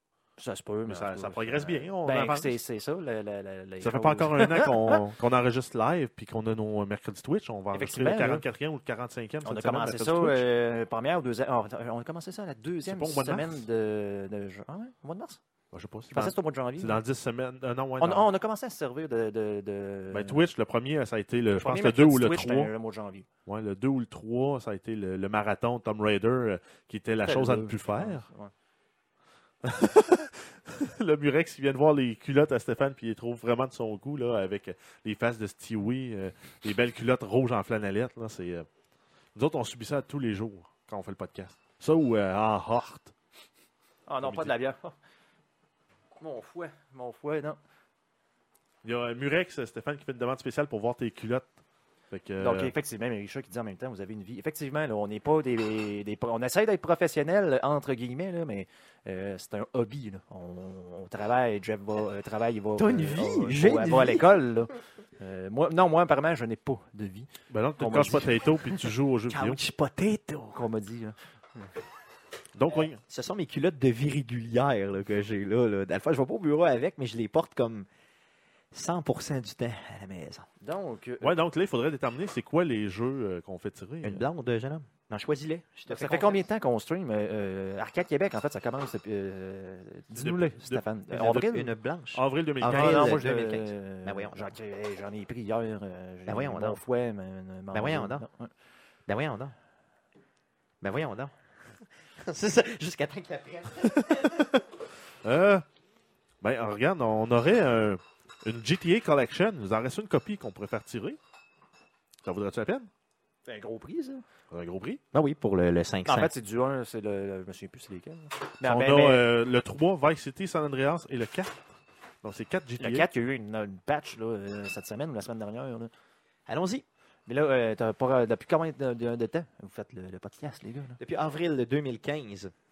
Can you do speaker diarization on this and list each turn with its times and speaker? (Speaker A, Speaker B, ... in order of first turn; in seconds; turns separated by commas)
Speaker A: 0.4-5.0, Speaker B: 0.9-2.6, Speaker B: 3.8-10.4, Speaker A: 7.7-8.4, Speaker A: 9.4-15.4, Speaker B: 12.8-13.6, Speaker B: 15.7-18.3, Speaker A: 16.1-17.0, Speaker A: 18.0-20.4, Speaker B: 20.1-22.7, Speaker A: 21.6-23.2, Speaker B: 23.4-28.2, Speaker A: 27.2-28.5, Speaker B: 29.6-38.7, Speaker B: 39.3-43.1, Speaker A: 44.1-44.9, Speaker B: 44.2-44.5, Speaker A: 46.2-47.6, Speaker B: 48.8-51.5, Speaker B: 52.1-52.7, Speaker A: 52.4-68.8, Speaker C: 62.8-64.3, Speaker B: 67.5-69.6, Speaker C: 69.3-70.6, Speaker A: 70.5-71.7, Speaker B: 72.5-73.0, Speaker C: 73.0-77.9, Speaker C: 78.7-80.5, Speaker A: 80.6-81.3, Speaker B: 81.2-84.2, Speaker C: 84.0-86.4, Speaker A: 85.9-91.7, Speaker B: 90.2-91.5, Speaker C: 91.2-94.5, Speaker B: 92.1-93.2, Speaker A: 92.6-98.5, Speaker C: 96.3-96.8, Speaker C: 97.7-98.2, Speaker C: 99.1-99.5, Speaker C: 100.8-104.5, Speaker B: 103.8-104.6, Speaker B: 105.2-105.6, Speaker B: 106.4-111.2, Speaker B: 112.2-112.9, Speaker A: 113.5-114.2, Speaker B: 114.5-115.0, Speaker C: 115.1-116.3, Speaker A: 116.0-119.2, Speaker B: 118.6-121.7, Speaker B: 122.2-123.1, Speaker A: 122.8-125.9, Speaker C: 126.5-126.8, Speaker A: 127.3-131.0, Speaker C: 131.0-132.5